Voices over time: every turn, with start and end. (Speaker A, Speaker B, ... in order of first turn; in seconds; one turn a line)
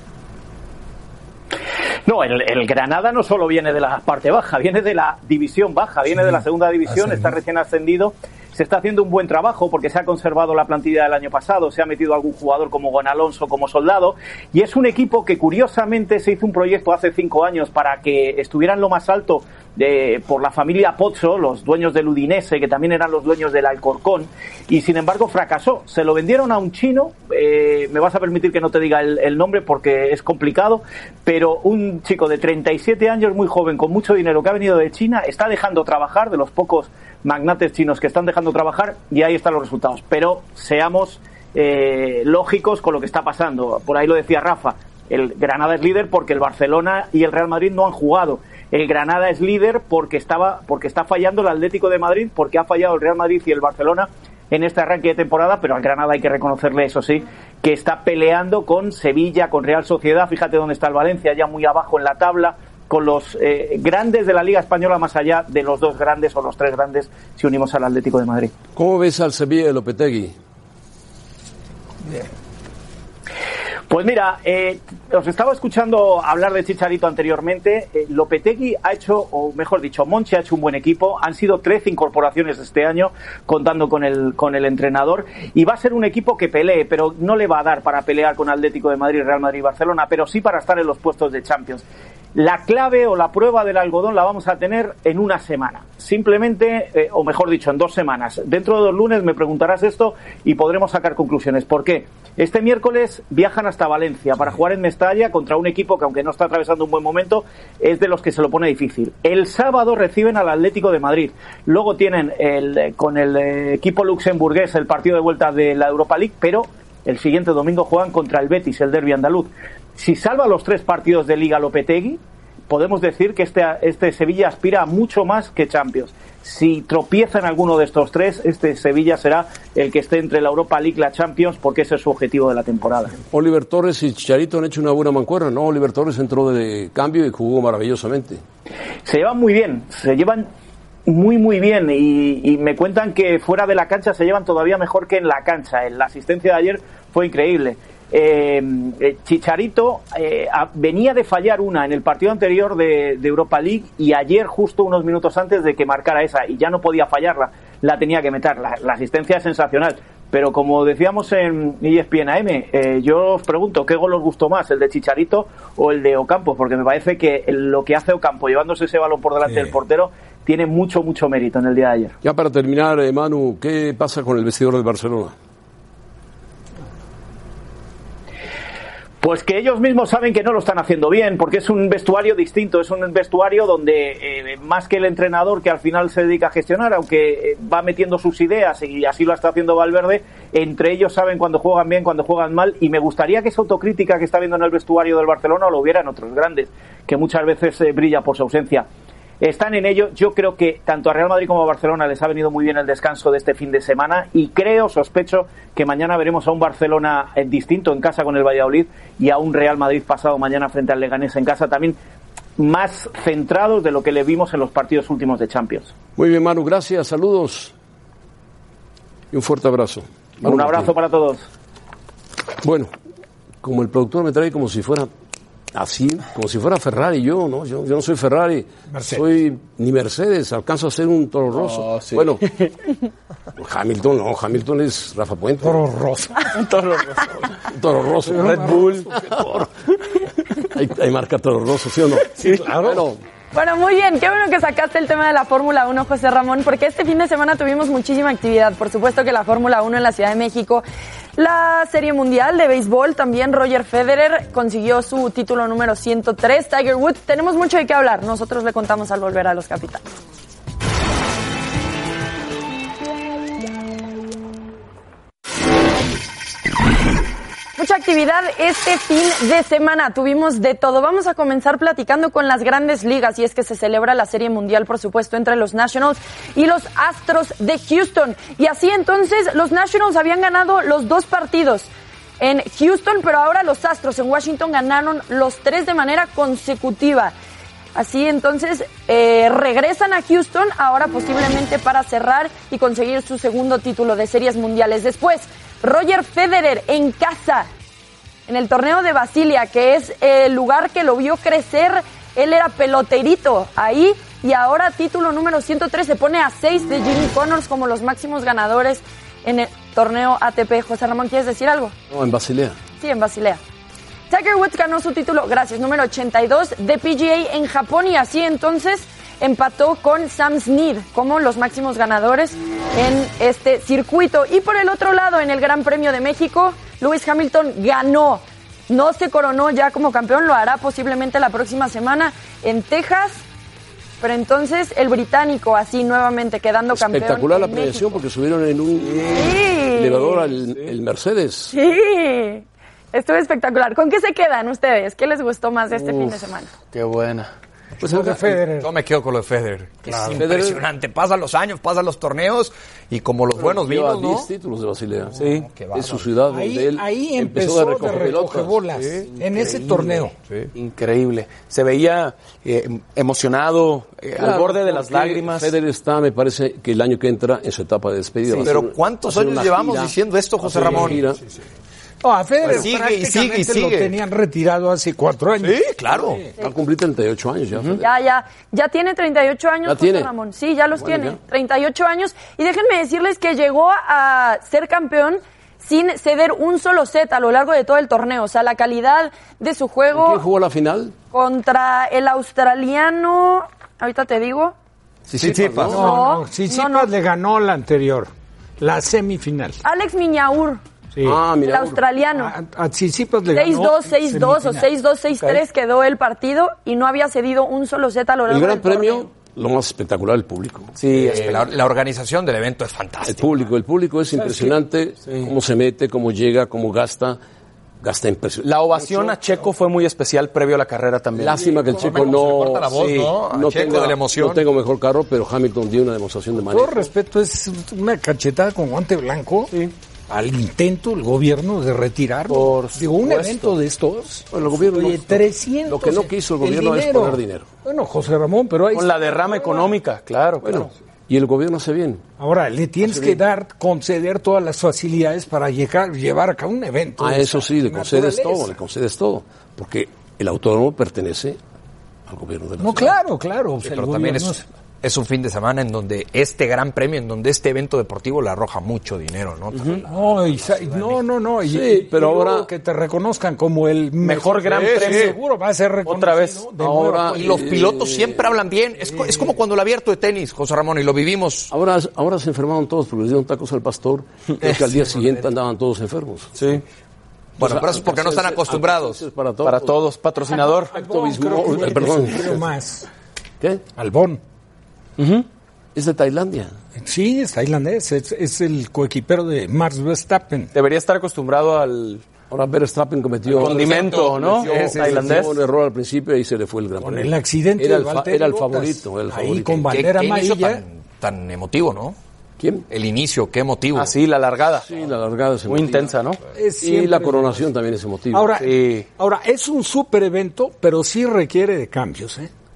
Speaker A: 2.0-68.5
Speaker B: 6.9-7.3
Speaker C: 68.8-70.3
Speaker A: 73.9-91.8
Speaker A: 92.3-133.1
Speaker C: 133.3-138.4
Speaker A: 139.0-140.5
Speaker A: 141.1-172.1
Speaker C: 172.2-175.3
Speaker A: 179.2-198.9
Speaker A: 199.4-212.0
Speaker A: 212.6-215.9
Speaker C: 216.2-217.7
Speaker C: 219.3-220.9
Speaker A: 220.4-221.4
Speaker C: 222.6-222.9
Speaker C: 223.6-225.1
Speaker C: 225.7-232.4
Speaker B: 228.9-229.2
Speaker D: 231.5-232.7
Speaker C: 233.6-235.8
Speaker B: 235.6-236.5
Speaker D: 236.5-237.5
Speaker C: 237.6-239.7
Speaker B: 238.2-239.4
Speaker D: 238.3-239.1
Speaker C: 240.5-243.2
Speaker B: 242.3-243.1
Speaker E: 243.5-250.8
Speaker E: 251.4-260.0
Speaker E: 267.8-281.9
Speaker E: 282.4-287.3
Speaker E: 287.9-297.7
Speaker E: 298.5-311.9
Speaker C: 312.1-312.8
Speaker E: 313.0-313.6
Speaker E: 314.3-333.4
Speaker E: 334.2-338.1
Speaker C: 336.9-341.7
Speaker D: 339.0-339.5
Speaker E: 339.3-340.5
Speaker E: 341.7-346.7
Speaker D: 346.9-347.5
Speaker C: 348.0-348.6
Speaker B: 348.0-348.9
Speaker F: 348.8-354.5
Speaker B: 350.1-350.4
Speaker C: 350.3-350.8
Speaker C: 353.6-355.4
Speaker D: 355.4-355.7
Speaker F: 355.7-356.2
Speaker C: 355.9-358.8
Speaker B: 356.5-360.3
Speaker D: 359.4-360.2
Speaker D: 360.7-365.7
Speaker C: 364.4-371.4
Speaker F: 368.6-371.2
Speaker B: 372.2-376.4
Speaker F: 372.6-374.1
Speaker F: 375.6-376.4
Speaker C: 376.6-378.1
Speaker E: 378.0-390.4
Speaker C: 379.9-380.3
Speaker C: 380.9-381.4
Speaker C: 390.1-391.1
Speaker E: 391.3-394.8
Speaker C: 395.3-396.1
Speaker F: 395.3-396.1
Speaker B: 395.6-399.8
Speaker E: 395.9-397.1
Speaker E: 399.8-400.8
Speaker B: 401.1-401.4
Speaker C: 401.2-402.0
Speaker E: 401.6-402.5
Speaker B: 402.3-404.9
Speaker E: 403.5-409.3
Speaker C: 408.5-411.0
Speaker D: 411.0-411.6
Speaker F: 411.1-413.6
Speaker C: 413.2-417.4
Speaker D: 414.4-414.7
Speaker C: 418.0-419.4
Speaker D: 418.6-421.6
Speaker C: 421.4-427.1
Speaker F: 421.9-424.6
Speaker D: 422.9-423.3
Speaker B: 426.7-429.7
Speaker B: 430.3-439.9
Speaker D: 432.5-433.8
Speaker C: 434.5-437.7
Speaker D: 438.9-440.9
Speaker C: 440.6-442.2
Speaker B: 442.4-448.8
Speaker C: 443.0-443.4
Speaker C: 447.2-451.6
Speaker C: 452.3-453.2
Speaker B: 452.8-454.6
Speaker F: 453.8-461.2
Speaker B: 460.1-467.7
Speaker C: 461.6-462.7
Speaker D: 464.2-465.4
Speaker D: 466.0-466.6
Speaker C: 466.8-468.4
Speaker F: 467.3-471.7
Speaker B: 469.1-469.5
Speaker C: 471.7-476.8
Speaker D: 476.5-476.8
Speaker F: 477.6-479.2
Speaker C: 477.6-480.0
Speaker D: 479.6-480.9
Speaker B: 480.5-483.1
Speaker C: 480.9-482.6
Speaker B: 483.9-484.4
Speaker D: 485.2-485.4
Speaker C: 485.9-486.7
Speaker B: 487.0-490.7
Speaker D: 490.7-492.2
Speaker C: 492.5-499.9
Speaker D: 493.6-495.6
Speaker F: 493.6-495.4
Speaker B: 497.0-500.8
Speaker F: 499.9-502.1
Speaker C: 502.6-502.8
Speaker F: 502.9-504.1
Speaker D: 503.9-504.9
Speaker C: 504.8-506.2
Speaker D: 505.7-506.4
Speaker B: 506.5-507.6
Speaker C: 506.8-508.6
Speaker B: 508.3-512.5
Speaker D: 508.6-509.1